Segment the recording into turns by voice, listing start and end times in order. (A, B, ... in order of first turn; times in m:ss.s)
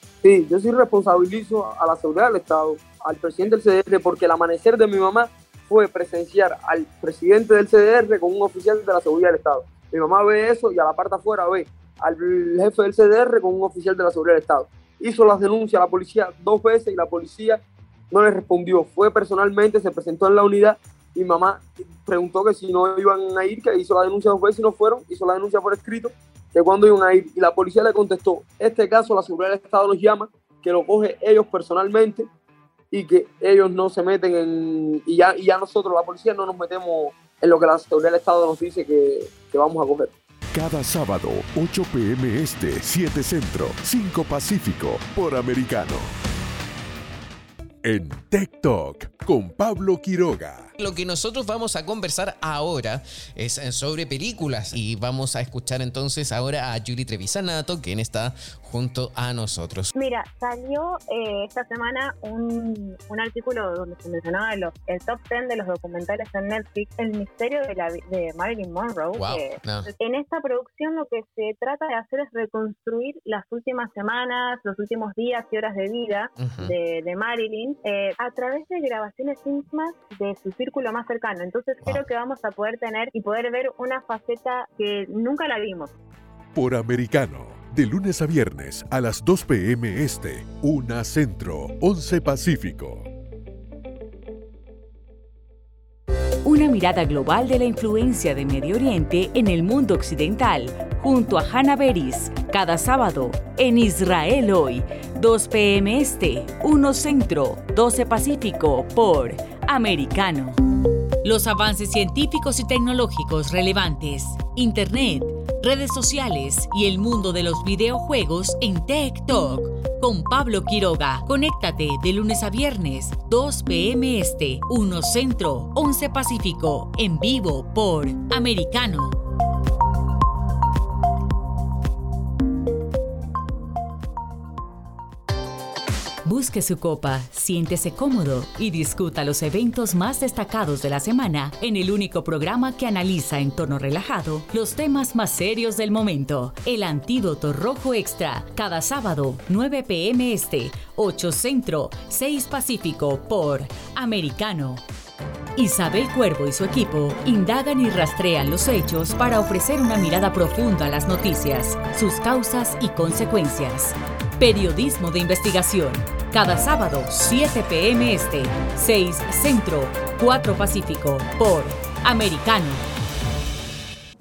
0:00.2-0:32.3 A
0:32.9-0:40.1 A
0:40.5-0:46.1 B
0:47.8-0:50.7 B
0:50.8-0:59.9 C
0:59.9-1:25.9 D
1:09.2-1:09.9 C
1:16.4-1:16.7 C
1:26.5-1:33.1 B
1:36.4-1:50.6 E
1:51.2-2:09.2 E
2:16.2-2:34.8 E
2:35.6-2:52.8 E